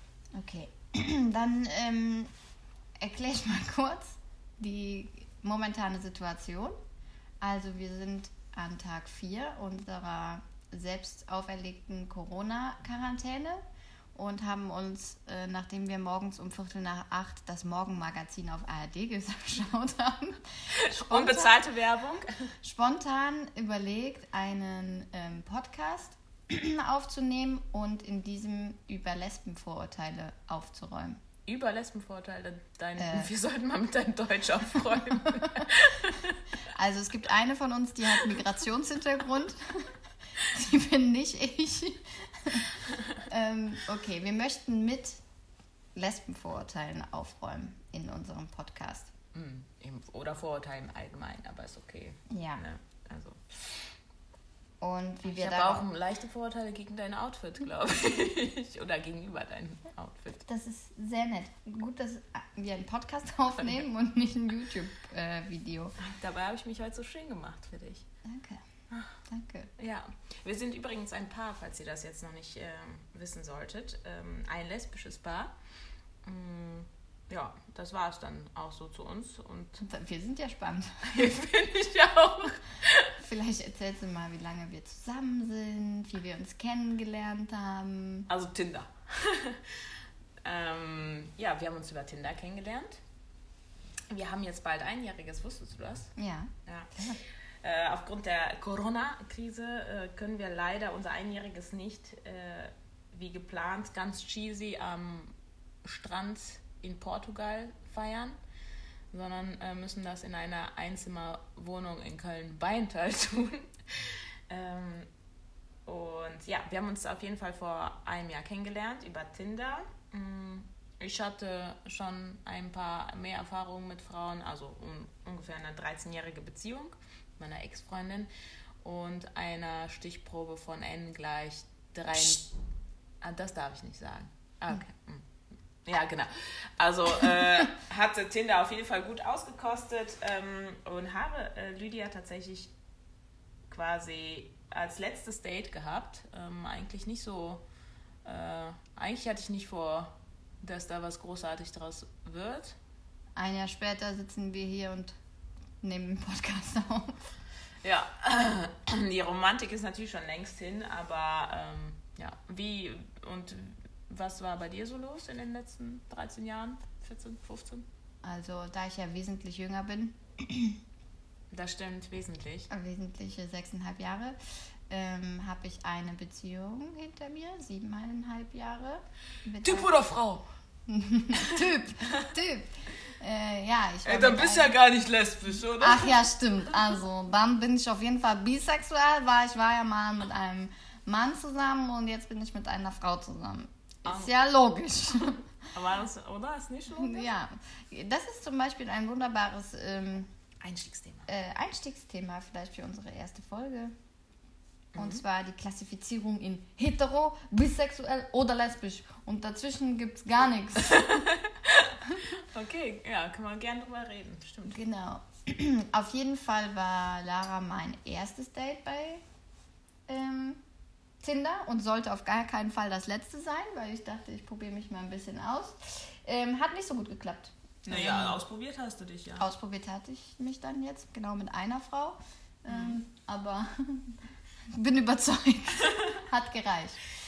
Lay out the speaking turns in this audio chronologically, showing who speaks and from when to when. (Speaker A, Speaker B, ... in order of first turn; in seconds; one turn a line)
Speaker A: 0.3-2.3
Speaker A: 3.0-6.8
Speaker A: 7.4-13.6
Speaker A: 14.2-21.6
Speaker B: 20.7-22.3
Speaker A: 22.6-31.2
Speaker B: 31.5-36.4
Speaker A: 33.0-33.3
Speaker A: 36.7-45.2
Speaker A: 46.0-49.1
Speaker B: 49.3-53.9
Speaker A: 52.3-52.6
Speaker A: 54.8-55.9
Speaker B: 55.2-60.5
Speaker A: 60.5-66.0
Speaker B: 66.0-68.1
Speaker A: 68.2-68.6
Speaker A: 69.3-69.7
Speaker B: 69.8-75.5
Speaker B: 76.2-79.8
Speaker A: 79.8-81.3
Speaker B: 81.0-83.2
Speaker A: 83.2-88.3
Speaker B: 88.3-89.8
Speaker B: 90.4-93.0
Speaker B: 94.1-96.1
Speaker A: 96.2-97.2
Speaker B: 96.7-96.9
Speaker B: 97.6-108.4
Speaker B: 109.1-115.1
Speaker B: 115.9-128.3
Speaker B: 128.8-132.5
Speaker B: 133.2-135.3
Speaker B: 135.8-142.7
Speaker B: 143.7-147.6
Speaker B: 148.2-152.8
Speaker A: 153.4-155.2
Speaker A: 155.8-157.2
Speaker B: 157.8-167.9
Speaker A: 168.2-170.8
Speaker B: 171.5-172.7
Speaker A: 172.7-174.4
Speaker A: 174.9-179.9
Speaker B: 179.6-180.5
Speaker A: 180.9-184.8
Speaker B: 184.0-186.3
Speaker A: 185.7-195.5
Speaker B: 194.1-194.3
Speaker B: 195.7-197.3
Speaker A: 196.9-200.3
Speaker B: 200.6-201.3
Speaker A: 201.3-203.9
Speaker B: 204.9-205.2
Speaker A: 205.0-211.3
Speaker B: 210.8-214.8
Speaker A: 214.7-219.2
Speaker A: 220.1-220.6
Speaker A: 221.2-228.4
Speaker B: 227.9-229.5
Speaker A: 229.4-234.2
Speaker B: 232.7-233.0
Speaker A: 234.7-237.1